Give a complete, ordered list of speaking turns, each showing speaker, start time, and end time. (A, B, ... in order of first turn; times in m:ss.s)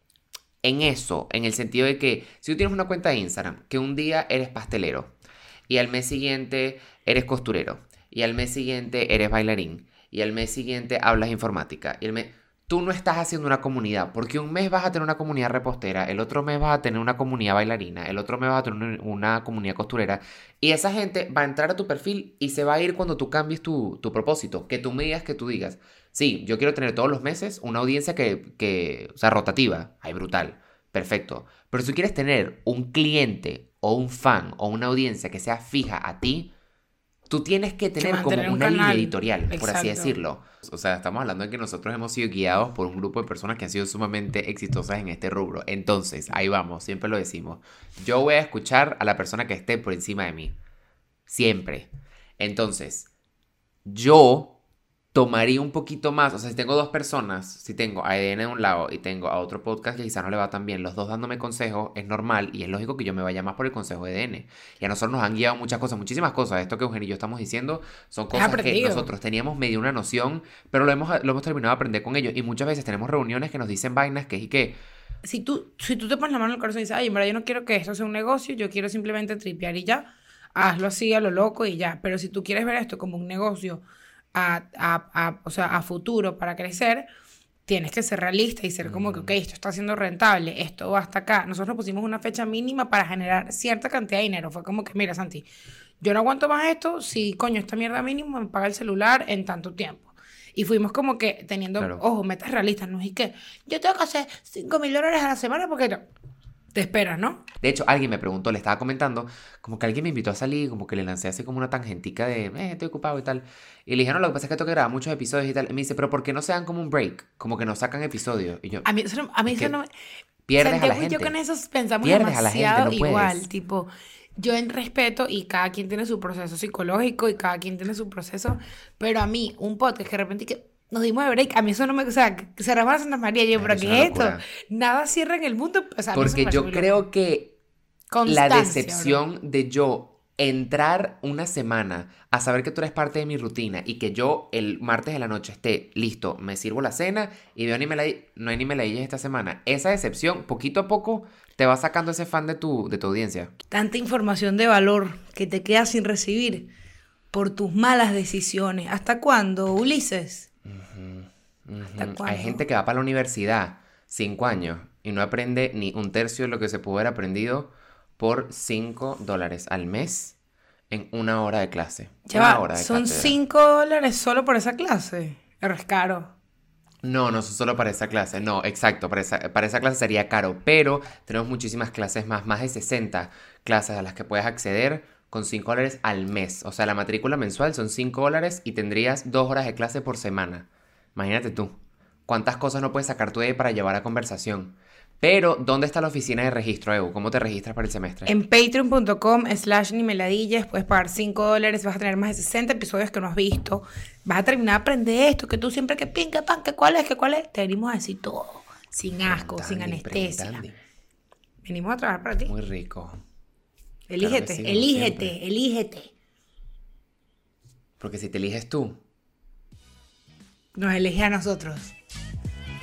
0:00.6-0:05.1 A
0:05.7-0:36.5 A
0:37.3-0:50.5 A
0:38.0-0:40.2 B
0:51.3-0:53.1 A
0:53.8-0:54.6 A
0:55.1-1:14.8 A
1:08.3-1:09.1 B
1:15.2-1:27.1 B
1:27.7-1:35.5 B
1:28.8-1:29.3 A
1:36.0-1:46.0 B
1:41.8-1:42.0 A
1:46.7-1:47.4 B
1:47.6-1:58.8 A
1:58.8-1:59.9 B
1:59.5-1:59.7 A
2:00.5-2:01.3 A
2:00.6-2:17.0 B
2:02.0-2:03.4 A
2:13.5-2:14.4 A
2:16.1-2:17.6 A
2:18.1-2:19.2 B
2:18.2-2:33.5 A
2:33.7-2:36.7 B
2:37.3-2:40.5 B
2:40.6-2:50.4 A
2:41.9-2:42.6 B
2:50.9-2:53.4 A
2:52.3-2:56.3 B
2:57.0-3:11.8 A
3:12.3-3:18.3 A
3:18.3-3:30.6 B
3:29.2-3:30.8 A
3:31.6-3:32.5 B
3:32.4-3:33.2 A
3:34.1-3:36.1 B
3:34.2-3:35.3 A
3:38.0-3:39.0 A
3:40.7-3:41.9 B